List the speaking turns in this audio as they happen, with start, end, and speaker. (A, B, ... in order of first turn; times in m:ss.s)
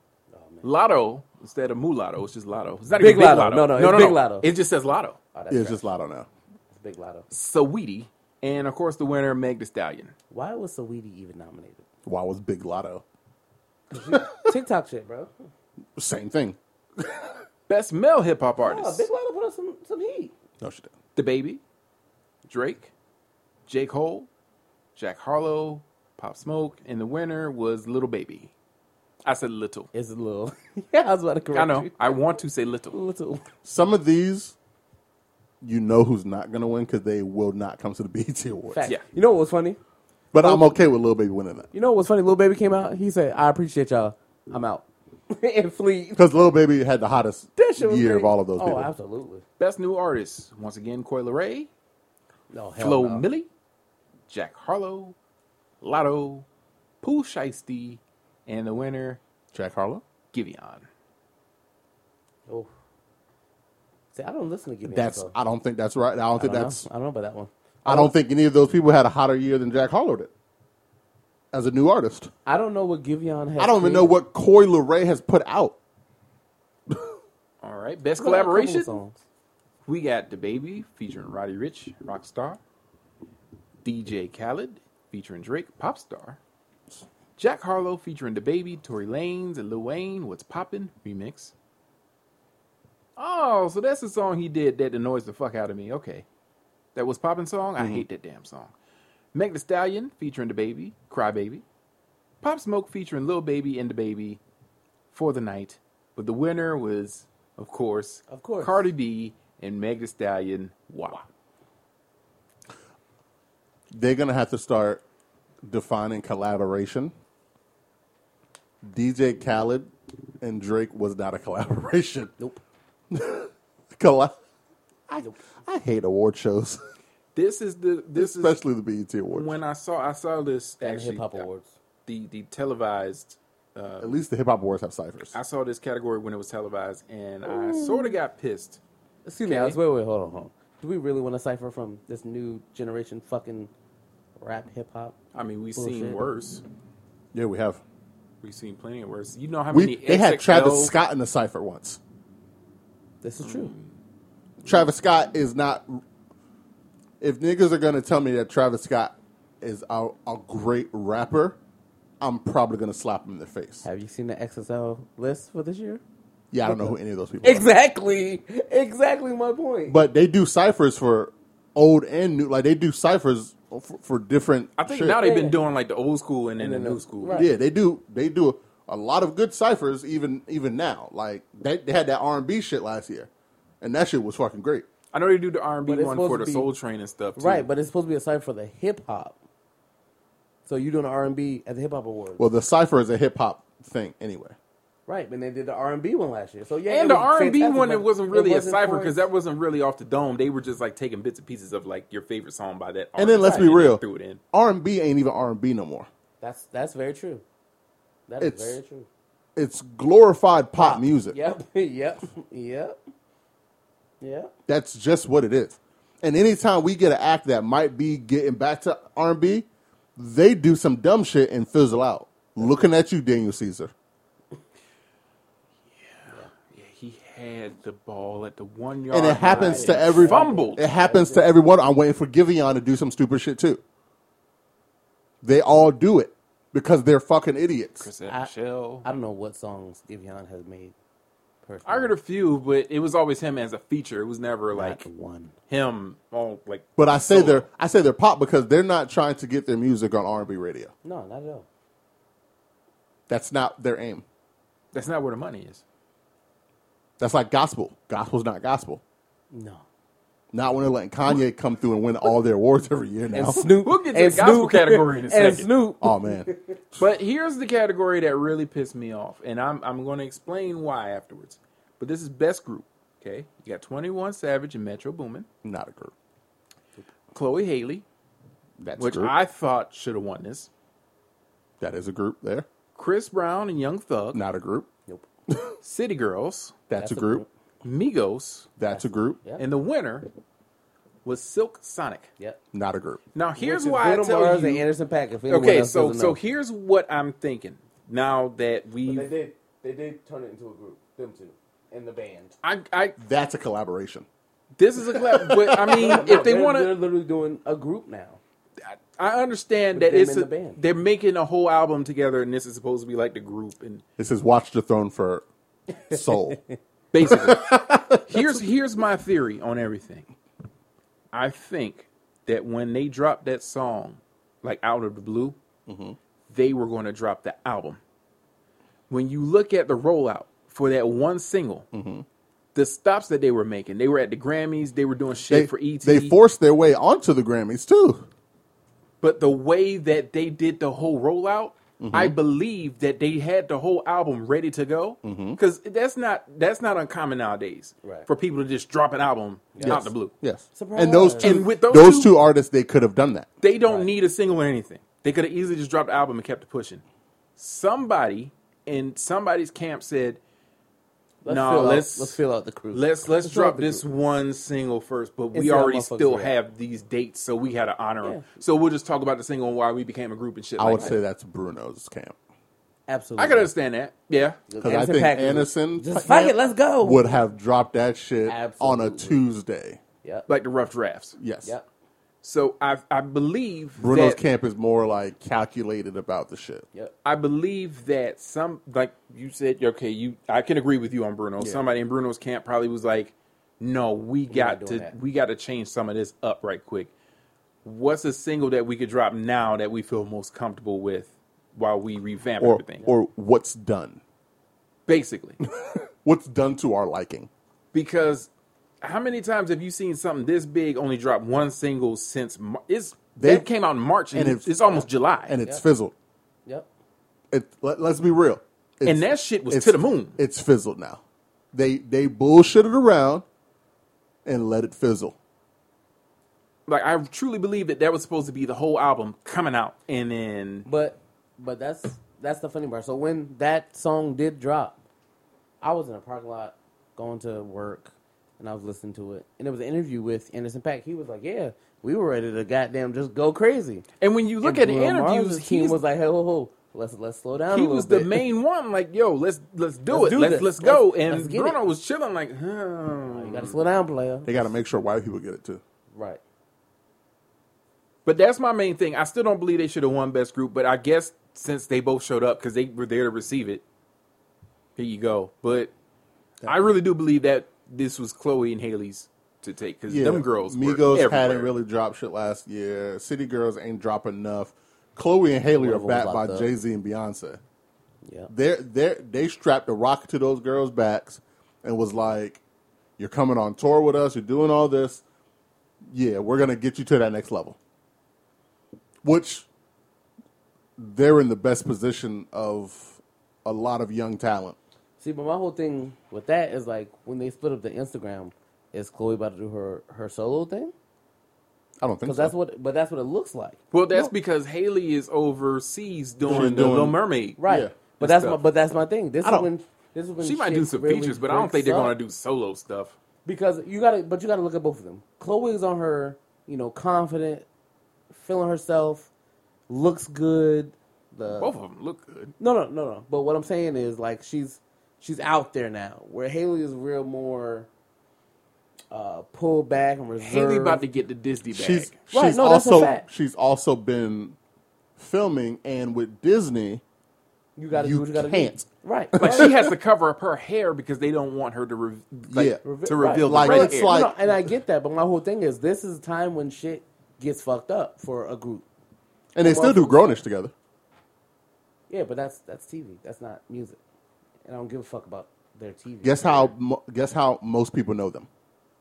0:00.3-0:00.7 A
0:00.6-0:05.2 B
0:03.0-0:04.5 A
0:05.3-0:05.9 A
0:05.5-0:06.3 C
0:06.7-0:07.3 A
0:07.3-0:10.1 B
0:10.3-0:11.8 A
0:12.1-0:13.0 C
0:13.9-0:15.3 A
0:14.1-0:14.3 C
0:16.0-0:16.6 C
0:17.7-0:19.1 B
0:18.6-0:20.3 A
0:20.6-0:20.9 C
0:21.2-0:21.6 B
0:22.5-0:22.9 B
0:23.7-0:24.3 B
0:25.0-0:28.5 B
0:29.2-0:29.9 B
0:29.9-0:32.2 A
0:31.5-0:33.0 B
0:32.9-0:33.4 A
0:33.6-0:34.6 C
0:35.6-0:38.9 C
0:38.7-0:39.8 A
0:40.3-0:41.7 C
0:40.4-0:40.7 A
0:41.7-0:46.2 A
0:46.2-0:48.9 C
0:47.6-0:49.4 A
0:49.6-0:51.7 B
0:52.5-0:53.2 A
0:52.8-0:53.5 B
0:54.3-0:55.2 B
0:55.8-0:56.4 B
0:57.0-0:59.2 B
0:59.5-1:00.0 C
1:00.3-1:00.9 B
1:04.1-1:05.3 A
1:04.9-1:06.8 C
1:06.4-1:08.1 A
1:07.9-1:10.3 C
1:11.5-1:12.3 C
1:12.5-1:14.1 A
1:13.6-1:15.8 C
1:17.6-1:19.0 B
1:18.2-1:19.2 A
1:19.9-1:22.6 B
1:23.8-1:26.4 B
1:27.4-1:31.5 B
1:33.2-1:36.2 B
1:37.0-1:38.7 B
1:37.8-1:38.0 C
1:39.3-1:41.6 B
1:42.4-1:44.4 B
1:45.1-1:51.3 B
1:48.3-1:48.9 A
1:53.9-1:55.0 C
1:55.6-1:57.1 C
1:58.8-2:02.3 C
2:03.1-2:04.3 C
2:05.1-2:06.8 C
2:07.4-2:08.6 B
2:08.2-2:09.6 C
2:09.3-2:11.5 B
2:10.8-2:11.7 A
2:12.1-2:14.2 B
2:14.0-2:15.4 C
2:15.3-2:18.8 B
2:17.5-2:18.2 A
2:19.3-2:23.7 A
2:19.5-2:19.8 B
2:24.4-2:25.2 A
2:25.3-2:26.6 B
2:25.8-2:26.3 A
2:27.3-2:27.8 C
2:28.4-2:30.9 B
2:29.7-2:32.0 C
2:33.2-2:33.7 A
2:33.4-2:33.9 B
2:34.6-2:36.0 C
2:37.2-2:41.6 C
2:42.2-2:43.8 C
2:43.8-2:46.0 A
2:46.5-2:47.7 C
2:46.6-2:50.0 A
2:49.9-2:55.2 C
2:54.8-2:57.4 B
2:55.2-2:55.6 A
2:56.6-2:57.5 A
2:57.3-3:03.3 C
3:03.8-3:04.9 C
3:05.1-3:07.7 B
3:05.9-3:06.7 A
3:07.4-3:09.4 A
3:10.7-3:12.4 A
3:12.4-3:14.6 C
3:15.1-3:19.2 A
3:16.9-3:24.4 B
3:23.2-3:26.1 C
3:23.4-3:23.7 A
3:26.4-3:27.4 A
3:28.3-3:29.1 A
3:28.4-3:28.8 C
3:29.6-3:31.4 C
3:30.8-3:33.0 A
3:34.2-3:34.5 A
3:34.7-3:43.9 C
3:46.0-3:50.8 B
3:49.1-3:53.8 C
3:49.4-3:51.5 A
3:55.4-3:58.1 C
3:58.0-3:59.0 B
3:58.3-3:58.5 A
3:59.0-4:00.9 A
4:01.6-4:02.2 A
4:01.9-4:05.0 B
4:04.7-4:05.5 A
4:05.7-4:07.7 B
4:07.0-4:10.9 C
4:11.0-4:11.7 A
4:13.3-4:14.2 C
4:14.9-4:15.8 B
4:17.2-4:19.0 C
4:19.5-4:19.8 A
4:20.5-4:23.7 C
4:23.3-4:26.8 A
4:23.6-4:25.7 B
4:26.0-4:27.1 C
4:27.0-4:35.5 B
4:35.6-4:36.1 C
4:37.3-4:38.0 B
4:38.8-4:39.3 C
4:39.0-4:40.7 B
4:41.8-4:42.7 C
4:43.0-4:44.4 B
4:44.3-4:44.9 C
4:45.5-4:45.8 C
4:45.8-4:46.8 B
4:46.9-4:47.4 C
4:47.0-4:47.5 A
4:47.8-4:48.7 B
4:48.8-4:49.4 C
4:48.9-4:49.6 A
4:49.6-4:50.3 B
4:51.2-4:52.3 B
4:52.7-4:53.2 C
4:53.3-4:54.8 B
4:53.6-4:56.4 A
4:55.5-4:59.3 B
4:59.0-5:02.5 A
5:02.6-5:03.2 B
5:03.2-5:04.3 C
5:04.8-5:06.9 B
5:05.1-5:06.5 C
5:06.0-5:08.4 A
5:08.9-5:14.0 B
5:09.9-5:10.8 A
5:14.2-5:15.4 C
5:16.1-5:16.6 C
5:16.1-5:16.7 A
5:17.1-5:20.3 B
5:17.2-5:18.6 C
5:21.3-5:25.6 B
5:25.9-5:26.2 C
5:26.5-5:28.0 B
5:29.1-5:31.9 B
5:31.9-5:32.2 C
5:32.8-5:36.4 B
5:35.5-5:38.3 C
5:39.2-5:50.3 B
5:42.0-5:42.4 C
5:45.2-5:45.6 C
5:48.0-5:48.3 A
5:49.8-5:50.1 A
5:49.8-5:53.5 C
5:50.8-5:51.6 A
5:51.4-5:52.3 B
5:53.6-5:57.0 B
5:57.6-6:00.4 B
6:01.4-6:04.0 A
6:01.5-6:02.4 B
6:02.9-6:11.2 B
6:05.5-6:06.6 A
6:10.8-6:12.4 C
6:13.1-6:13.7 A
6:13.4-6:14.6 B
6:14.7-6:17.4 A
6:14.8-6:20.0 C
6:18.5-6:19.4 A
6:20.5-6:21.4 B
6:21.4-6:21.7 C
6:22.4-6:24.4 B
6:24.0-6:26.8 C
6:27.2-6:37.1 B
6:34.5-6:35.1 A
6:37.8-6:43.1 B
6:42.6-6:44.2 C
6:45.1-6:45.6 B
6:45.6-6:47.5 C
6:47.9-6:48.5 B
6:49.0-6:55.5 B
6:53.4-6:53.7 C
6:54.3-6:56.1 C
6:57.5-7:01.2 C
6:59.0-7:00.4 B
7:01.7-7:03.4 C
7:04.4-7:05.4 C
7:06.9-7:10.8 B
7:10.9-7:15.0 A
7:15.8-7:24.1 A
7:24.2-7:26.0 B
7:24.6-7:28.4 A
7:27.7-7:33.8 B
7:30.1-7:31.8 A
7:33.3-7:34.5 A
7:34.4-7:35.8 C
7:36.1-7:36.4 A
7:38.2-7:43.8 B
7:45.0-7:45.9 B
7:46.6-7:51.8 B
7:50.1-7:57.6 C
7:55.8-7:56.7 A
7:58.2-7:58.5 A
7:58.5-8:02.6 C
8:03.2-8:05.2 C
8:06.1-8:07.8 C
8:09.2-8:09.7 C
8:11.0-8:14.8 C
8:15.2-8:20.9 A
8:22.0-8:22.5 C
8:22.2-8:23.8 A
8:23.9-8:27.6 B
8:26.4-8:27.9 C
8:27.6-8:32.2 A
8:28.1-8:28.6 B
8:29.4-8:29.7 C
8:30.4-8:33.2 B
8:33.4-8:37.7 A
8:38.3-8:39.3 A
8:39.9-8:41.8 A
8:41.6-8:42.5 B
8:42.6-8:47.9 A
8:49.1-8:51.0 A
8:50.4-8:52.1 B
8:51.7-8:54.6 C
8:52.3-8:53.2 A
8:55.2-8:57.0 C
8:57.8-8:59.7 A
8:57.9-9:00.0 C
8:59.4-9:04.2 B
9:02.5-9:02.8 C
9:02.8-9:08.8 A
9:03.4-9:04.3 C
9:09.5-9:10.7 C
9:09.6-9:10.4 A
9:12.1-9:14.0 A
9:14.6-9:16.7 A
9:16.2-9:18.5 C